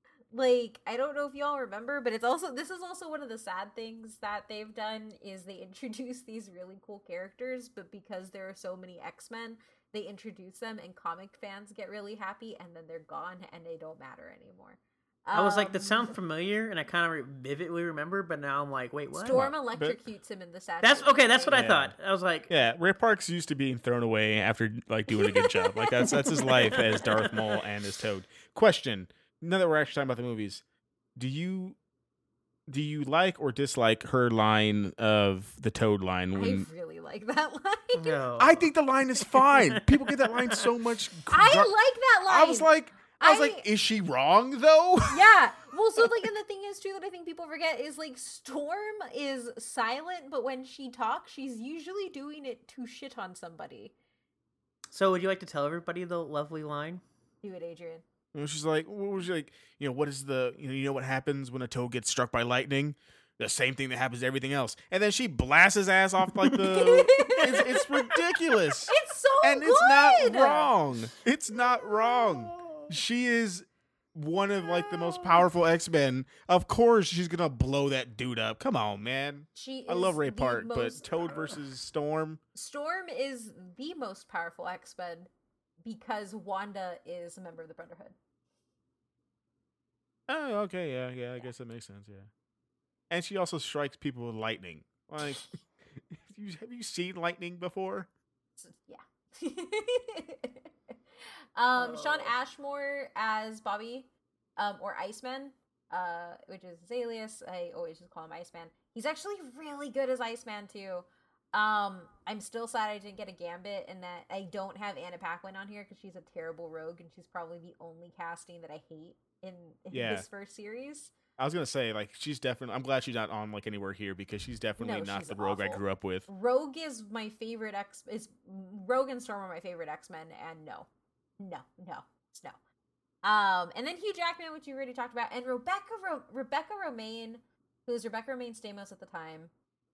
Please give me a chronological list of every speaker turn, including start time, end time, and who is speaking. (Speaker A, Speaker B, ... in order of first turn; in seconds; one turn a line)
Speaker A: 0.3-16.1
Speaker B: 15.3-19.5
Speaker A: 19.1-21.8
Speaker C: 19.3-20.0
Speaker B: 20.8-22.5
Speaker C: 21.5-21.9
Speaker C: 22.5-30.6
Speaker A: 25.1-26.1
Speaker B: 26.2-27.6
Speaker C: 31.2-31.8
Speaker C: 32.7-36.7
Speaker A: 36.3-38.2
Speaker B: 37.9-38.7
Speaker C: 38.4-41.7
Speaker B: 39.2-40.7
Speaker A: 41.3-43.7
Speaker C: 42.3-45.2
Speaker A: 45.1-54.0
Speaker B: 54.9-57.0
Speaker A: 57.4-58.0
Speaker C: 58.3-82.4
Speaker A: 66.6-68.2
Speaker A: 68.7-70.7
Speaker A: 74.7-75.4
Speaker A: 79.5-81.5
Speaker A: 82.5-85.3
Speaker A: 85.8-88.2
Speaker C: 90.3-92.3
Speaker C: 93.1-98.1
Speaker A: 98.6-100.7
Speaker A: 101.6-121.1
Speaker B: 101.8-102.3
Speaker C: 119.9-120.3
Speaker C: 121.4-126.3
Speaker A: 124.8-130.9
Speaker A: 131.4-132.6
Speaker A: 133.2-139.5